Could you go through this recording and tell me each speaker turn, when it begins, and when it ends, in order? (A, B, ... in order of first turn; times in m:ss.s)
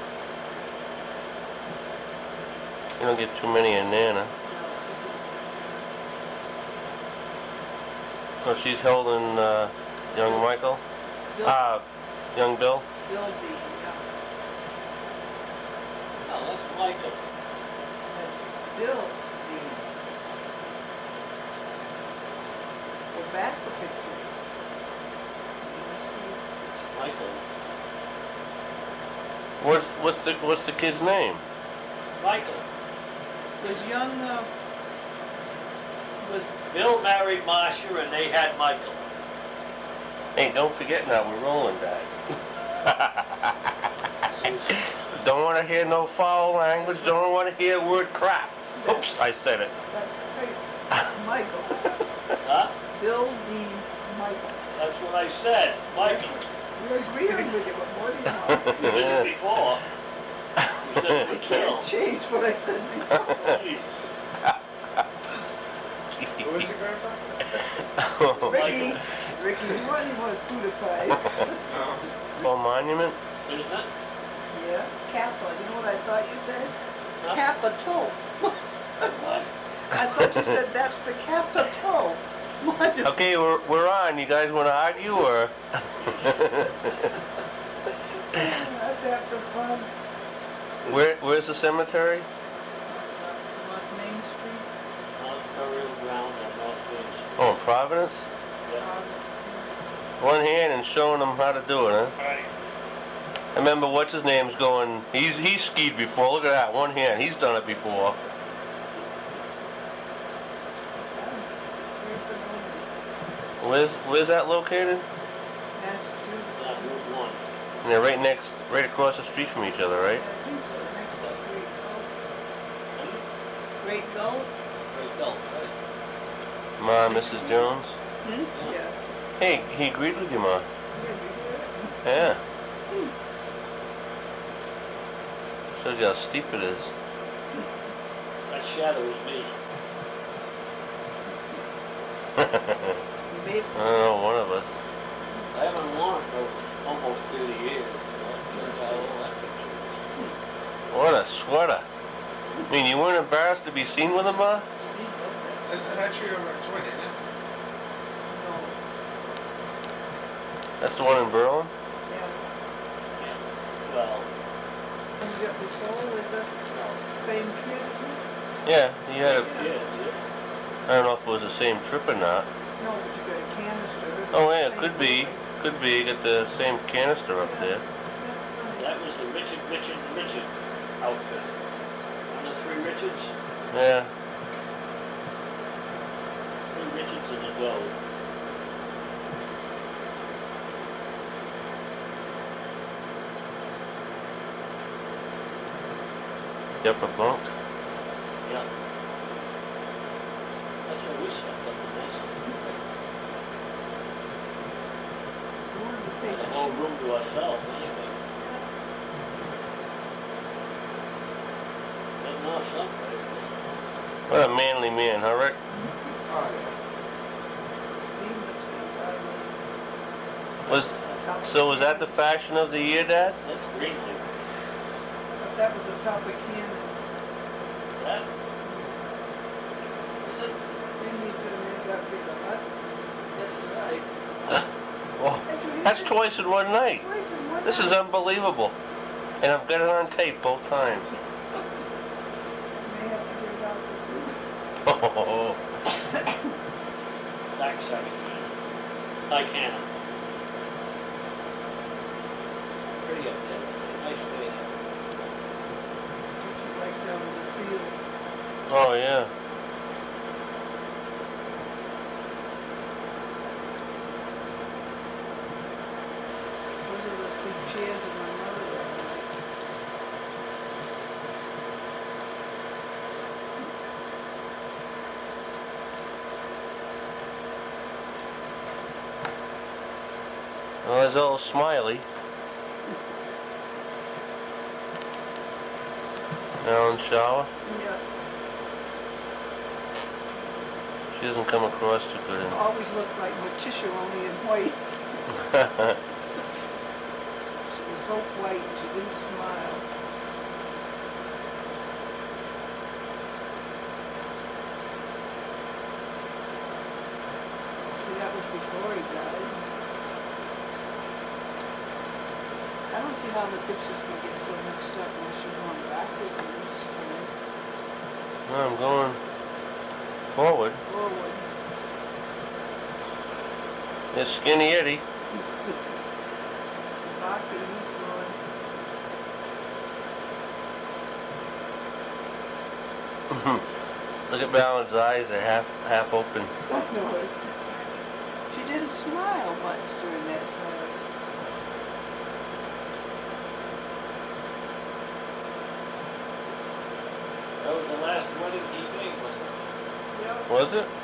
0:03.0-0:04.3 A
0:04.4-0:05.4 B
0:08.4-0:10.8 A
0:11.4-0:12.8 A
0:13.0-0:14.0 B
0:16.2-0:17.2 C
0:18.1-0:19.9 B
0:23.1-0:24.2 B
0:25.6-0:26.4 B
0:26.7-0:27.4 C
0:29.6-0:31.4 A
0:32.2-0:32.6 C
0:33.6-0:34.5 B
0:36.2-0:36.5 B
0:36.7-0:39.0 C
0:40.4-0:43.7 A
0:44.3-0:44.7 C
0:44.8-0:49.7 A
0:46.8-0:47.1 C
0:48.8-0:49.1 B
0:49.9-0:52.0 B
0:52.4-0:52.8 C
0:52.9-0:54.6 B
0:54.8-0:56.4 C
0:56.0-0:59.2 B
0:58.7-0:59.8 C
0:58.7-0:59.2 A
1:00.8-1:01.9 C
1:01.0-1:03.6 B
1:03.3-1:04.0 C
1:06.2-1:06.7 A
1:06.4-1:07.6 D
1:07.8-1:09.0 A
1:08.4-1:11.6 B
1:08.5-1:09.0 C
1:11.7-1:12.1 D
1:12.4-1:13.2 A
1:13.4-1:13.9 C
1:14.5-1:19.2 B
1:19.1-1:19.5 C
1:19.9-1:23.2 B
1:23.0-1:27.0 A
1:28.2-1:29.9 B
1:30.8-1:32.2 A
1:32.8-1:34.7 B
1:35.2-1:37.5 C
1:37.4-1:38.2 A
1:38.8-1:39.7 B
1:40.2-1:42.1 A
1:42.2-1:42.5 C
1:43.5-1:48.2 A
1:51.0-1:52.9 B
1:53.6-1:55.0 A
1:55.8-1:57.1 B
1:56.5-1:57.4 C
1:57.8-2:00.2 A
2:00.1-2:02.1 B
2:03.0-2:03.2 C
2:03.8-2:04.5 B
2:04.9-2:05.7 C
2:06.8-2:08.0 A
2:07.1-2:07.7 B
2:08.2-2:09.0 B
2:09.4-2:10.7 A
2:11.0-2:12.0 B
2:12.0-2:12.4 A
2:15.8-2:16.9 A
2:18.5-2:19.5 C
2:22.4-2:23.0 A
2:23.3-2:23.7 B
2:23.7-2:24.8 A
2:25.5-2:30.0 C
2:28.5-2:29.0 B
2:30.9-2:31.8 A
2:32.7-2:34.7 A
2:34.8-2:36.1 B
2:35.7-2:37.2 D
2:38.3-2:38.8 B
2:40.8-2:41.7 A
2:42.1-2:42.4 B
2:43.2-2:44.3 C
2:45.2-2:48.2 B
2:48.6-2:49.5 A
2:49.2-2:50.2 C
2:49.3-2:49.7 B
2:50.9-2:52.5 A
2:52.8-2:55.4 B
2:54.3-2:57.8 A
2:57.4-2:58.9 B
2:58.8-3:01.6 C
3:02.3-3:03.3 C
3:03.7-3:04.1 A
3:06.6-3:07.9 C
3:16.8-3:17.5 A
3:20.8-3:22.8 C
3:25.7-3:26.8 B
3:26.2-3:28.2 C
3:32.2-3:33.5 C
3:34.3-3:35.6 A
3:36.3-3:36.7 D
3:38.0-3:39.5 B
3:40.7-3:40.9 A
3:41.1-3:42.1 B
3:41.4-3:43.4 A
3:43.3-3:44.2 C
3:45.4-3:47.0 B
3:48.0-3:48.3 C
3:48.6-3:48.9 B
3:50.2-3:50.6 C
3:51.0-3:52.7 B
3:53.4-3:54.0 C
3:55.2-3:57.0 A
3:55.5-3:56.2 B
3:57.0-3:58.0 B
3:57.6-3:58.8 A
3:59.4-4:01.2 A
4:02.8-4:04.4 B
4:04.8-4:05.6 A
4:06.1-4:06.4 B
4:07.5-4:08.5 C
4:09.3-4:09.9 C
4:13.0-4:14.7 C
4:16.4-4:18.0 B
4:18.7-4:19.3 A
4:26.8-4:29.3 B
4:40.8-4:42.0 A
4:46.6-4:47.5 A
4:47.6-4:48.0 B
4:51.1-4:52.6 A
4:52.5-4:54.8 B
4:55.3-4:56.0 A
4:57.7-4:59.8 B
5:07.9-5:09.6 B
5:12.9-5:17.3 B
5:18.5-5:19.2 A
5:20.3-5:20.8 A
5:20.9-5:21.5 B
5:24.1-5:25.0 A
5:27.0-5:28.4 B
5:33.3-5:33.6 A
5:34.3-5:36.5 A
5:36.7-5:37.3 B
5:38.5-5:41.0 B
5:47.6-5:49.6 C
5:50.1-5:50.5 B
5:50.5-5:50.9 A